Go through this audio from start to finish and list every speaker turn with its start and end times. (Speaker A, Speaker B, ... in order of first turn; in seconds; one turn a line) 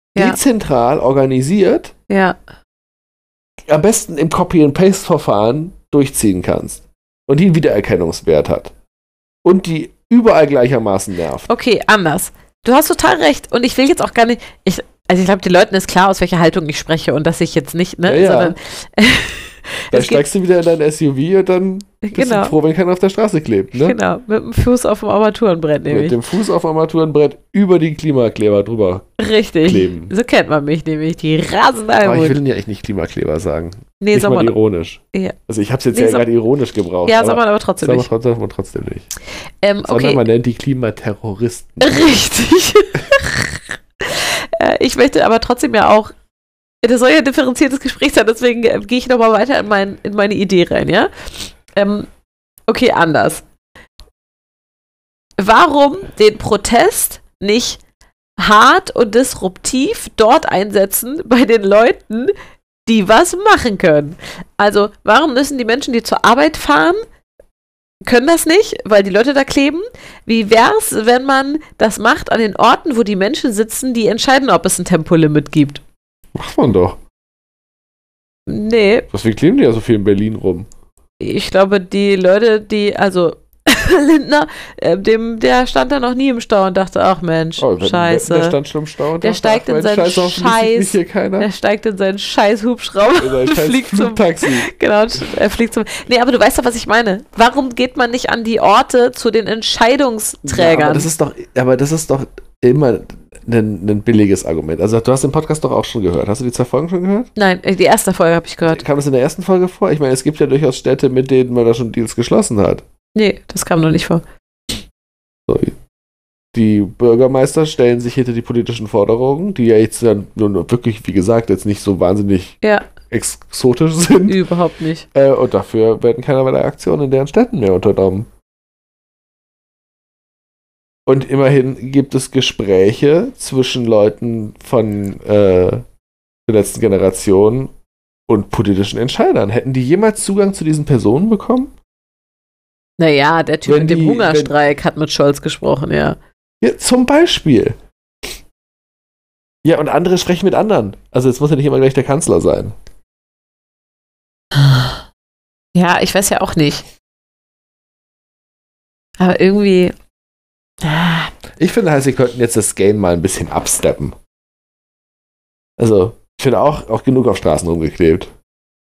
Speaker A: 0.1-1.9
Speaker B: 2.1-2.4
Speaker A: 3.7-8.7
Speaker A: 9.4-11.5
Speaker B: 11.5-20.2
Speaker A: 18.1-18.6
Speaker A: 19.9-24.0
Speaker B: 22.0-22.5
Speaker B: 23.7-26.2
Speaker A: 25.9-30.1
Speaker B: 29.2-32.4
Speaker A: 32.0-39.1
Speaker B: 34.0-34.5
Speaker B: 35.9-36.2
Speaker B: 37.1-38.1
Speaker B: 39.6-40.2
Speaker A: 39.9-42.1
Speaker B: 41.8-46.1
Speaker B: 46.8-51.1
Speaker B: 51.7-52.1
Speaker B: 52.7-53.4
Speaker B: 55.4-57.8
Speaker B: 58.4-62.3
Speaker B: 62.9-67.0
Speaker B: 68.1-75.8
Speaker A: 76.3-77.0
Speaker B: 78.5-79.1
Speaker A: 79.1-80.7
Speaker B: 81.2-88.6
Speaker A: 87.6-91.5
Speaker B: 89.2-101.1
Speaker A: 93.2-94.7
Speaker A: 100.5-107.3
Speaker B: 107.3-108.8
Speaker A: 108.7-112.8
Speaker B: 113.1-114.2
Speaker A: 115.5-115.8
Speaker A: 116.5-124.4
Speaker B: 122.6-122.9
Speaker B: 124.3-125.1
Speaker A: 125.1-128.3
Speaker A: 131.1-135.8
Speaker A: 136.5-137.7
Speaker A: 138.3-141.7
Speaker B: 143.0-146.2
Speaker A: 143.7-144.5
Speaker A: 146.6-147.8
Speaker A: 149.6-152.8
Speaker B: 154.5-155.0
Speaker B: 155.8-156.8
Speaker B: 159.2-159.9
Speaker B: 160.8-161.3
Speaker A: 161.6-164.2
Speaker A: 165.8-168.3